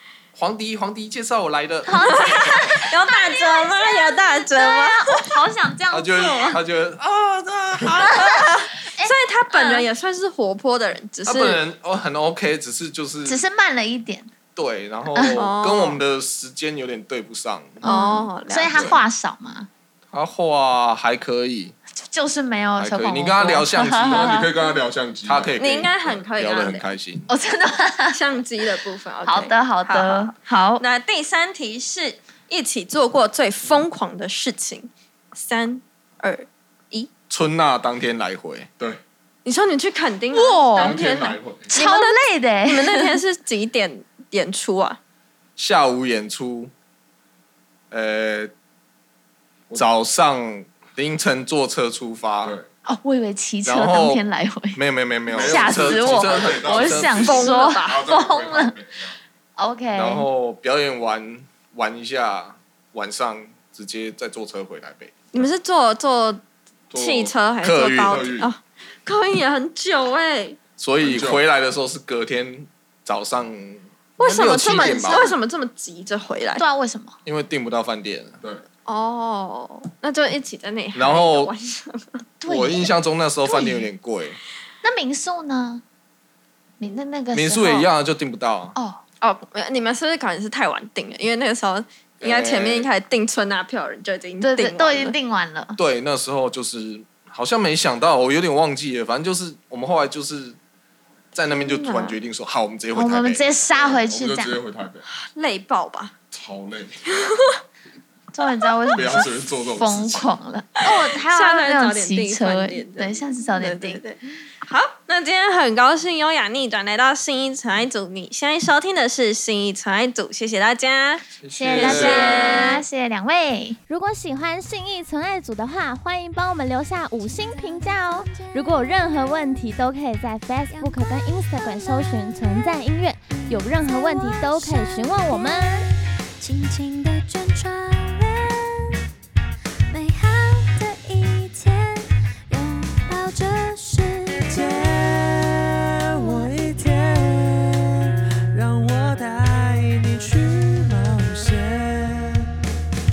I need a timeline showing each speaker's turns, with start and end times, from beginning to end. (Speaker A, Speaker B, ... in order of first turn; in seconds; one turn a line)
Speaker A: 0.3-2.6
Speaker B: 1.9-6.5
Speaker C: 2.1-5.3
Speaker A: 5.9-8.4
Speaker C: 6.2-6.5
Speaker B: 8.1-9.9
Speaker C: 8.1-11.6
Speaker A: 11.2-13.4
Speaker B: 13.2-14.3
Speaker A: 14.5-17.8
Speaker B: 15.1-15.4
Speaker C: 15.3-16.0
Speaker B: 17.8-19.7
Speaker C: 17.8-18.9
Speaker A: 18.7-19.0
Speaker A: 20.1-21.7
Speaker B: 22.0-24.5
Speaker A: 22.8-24.5
Speaker D: 24.0-25.6
Speaker A: 25.2-27.3
Speaker C: 25.6-26.9
Speaker B: 27.3-28.2
Speaker C: 28.1-37.1
Speaker B: 29.2-30.8
Speaker A: 37.3-38.7
Speaker C: 39.4-41.1
Speaker B: 40.3-43.1
Speaker D: 40.7-41.7
Speaker C: 41.7-45.0
Speaker A: 45.6-46.7
Speaker A: 47.9-48.5
Speaker A: 49.7-52.6
Speaker D: 52.4-52.7
Speaker B: 52.9-58.8
Speaker A: 53.6-54.2
Speaker A: 54.7-57.5
Speaker D: 55.3-59.1
Speaker C: 57.2-58.0
Speaker B: 59.6-60.3
Speaker A: 59.9-65.2
Speaker C: 65.3-66.4
Speaker D: 66.9-67.3
Speaker C: 66.9-70.6
Speaker A: 67.6-68.3
Speaker D: 68.0-68.5
Speaker A: 70.8-75.3
Speaker D: 71.0-71.4
Speaker C: 74.2-76.6
Speaker B: 74.7-75.3
Speaker B: 76.6-77.2
Speaker A: 77.2-78.4
Speaker C: 78.8-82.2
Speaker A: 80.9-81.5
Speaker B: 82.4-82.9
Speaker A: 82.4-84.4
Speaker B: 83.4-83.9
Speaker B: 84.8-85.8
Speaker B: 86.8-87.9
Speaker A: 87.3-88.8
Speaker B: 88.7-89.0
Speaker C: 89.2-95.2
Speaker A: 92.2-92.9
Speaker B: 94.4-95.8
Speaker A: 95.8-100.6
Speaker A: 101.3-103.5
Speaker C: 101.6-102.2
Speaker B: 102.9-104.6
Speaker D: 103.7-105.0
Speaker C: 105.1-106.1
Speaker D: 106.3-107.1
Speaker B: 108.3-114.0
Speaker D: 108.9-110.3
Speaker C: 110.9-122.8
Speaker A: 121.4-122.8
Speaker B: 121.5-123.8
Speaker E: 123.9-135.9
Speaker F: 127.2-129.4
Speaker F: 130.7-139.0
Speaker F: 139.9-144.5
Speaker G: 144.5-145.5
Speaker G: 146.1-147.7
Speaker F: 146.2-146.5
Speaker G: 148.5-152.4